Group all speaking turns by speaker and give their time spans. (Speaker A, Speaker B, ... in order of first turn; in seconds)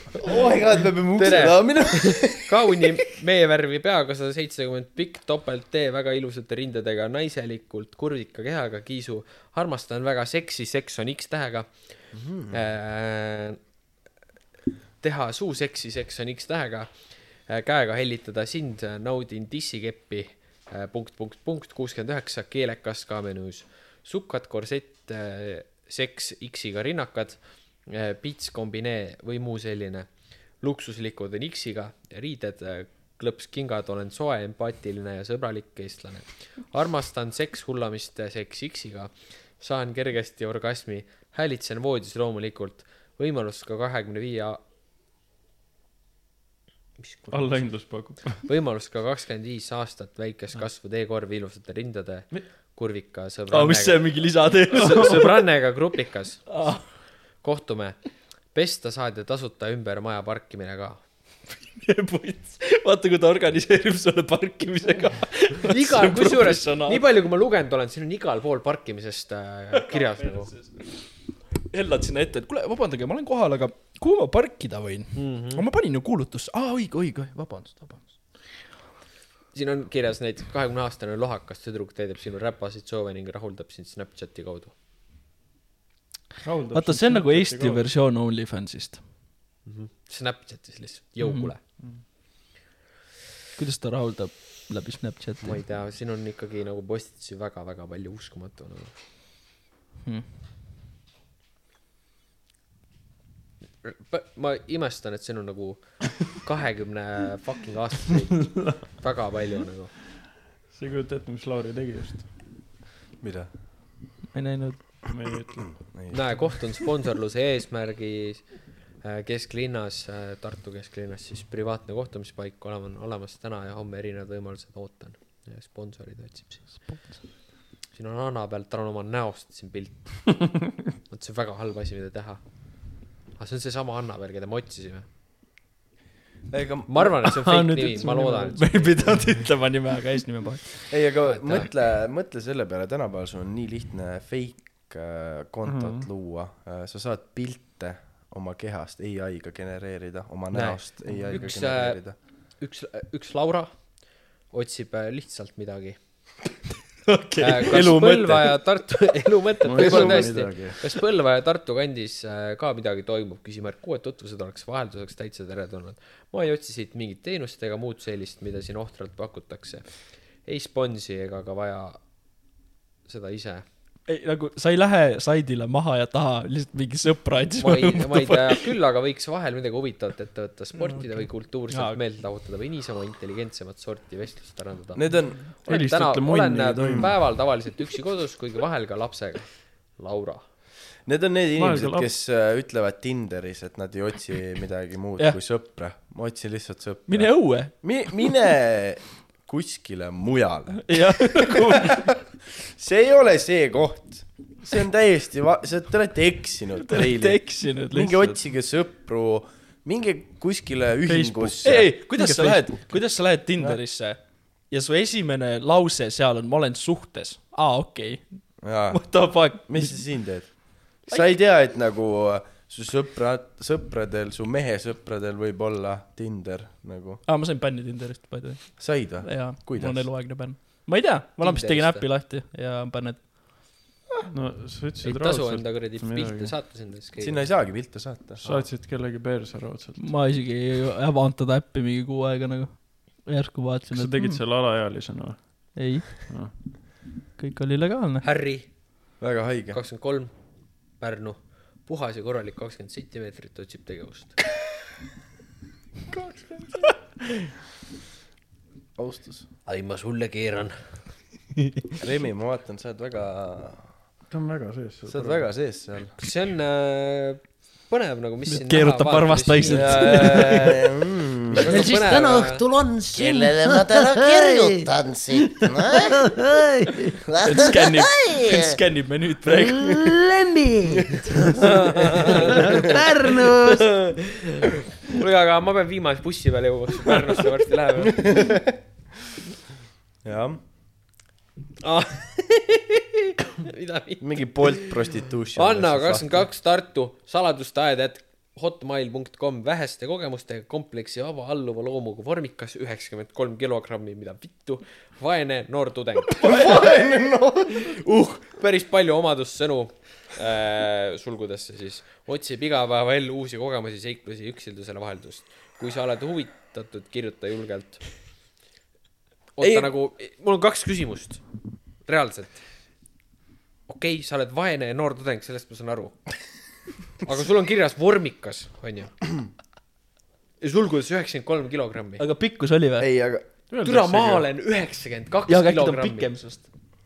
Speaker A: 0.2-2.8, 12.1-12.6, 113.2-113.5, 115.8-116.6, 136.5-137.2, 140.9-152.2, 157.7-158.4, 159.7-160.8, 184.9-185.5, 191.1-212.0, 218.6-227.2, 228.8-230.2, 237.2-238.4, 249.2-249.8, 259.0-259.5, 262.0-263.9, 265.1-266.2, 269.7-271.7, 288.2-288.7, 290.2-290.6, 294.2-296.5, 306.4-308.0, 319.6-319.9, 333.0-333.5
Speaker B: 1.2-13.6, 15.0-44.6, 47.0-56.8, 57.4-58.0, 58.5-61.0, 65.6-70.5, 75.1-75.7, 79.5-84.7, 89.7-91.6, 95.4-99.0, 103.8-109.9, 116.1-127.2, 127.9-130.5, 131.1-135.1, 136.9-139.2, 141.2-141.7, 150.5-154.0, 154.5-156.0, 157.4-172.0, 173.1-173.7, 177.6-190.4, 231.4-232.1, 235.0-237.7, 248.2-248.7, 249.7-250.3, 251.0-254.4, 259.7-260.8, 266.2-270.8, 271.5-272.6, 281.6-282.8, 283.6-284.4, 285.0-288.4, 291.8-293.0, 293.6-294.9, 295.6-307.0, 307.7-318.2, 319.6-322.7, 323.9-326.4, 327.2-329.2, 330.6-332.2, 333.8-336.3
Speaker C: 47.3-48.4, 86.4-87.8, 108.5-108.9, 110.7-112.3, 115.1-115.8, 137.6-138.6, 145.7-146.1, 159.6-160.7, 185.7-187.1, 191.6-192.1, 211.1-213.0, 234.3-236.5, 238.4-240.1, 243.9-246.5, 264.3-265.5, 333.7-334.4
Speaker D: 53.5-55.3, 56.5-56.9, 61.8-67.0, 69.8-71.0, 71.7-78.2, 86.7-89.0, 91.2-91.5, 93.6-95.6, 114.3-115.0, 126.8-127.2, 137.9-140.8, 157.1-158.3, 174.1-178.7, 180.8-182.0, 197.1-197.8, 200.9-202.1, 206.8-208.4, 211.6-220.1, 227.3-233.3, 240.0-244.4, 245.8-246.8, 247.4-248.2, 268.5-270.7, 277.4-280.1, 332.2-333.1, 335.5-336.6
Speaker E: 271.6-276.3, 277.3-278.8, 279.5-281.1, 282.8-283.9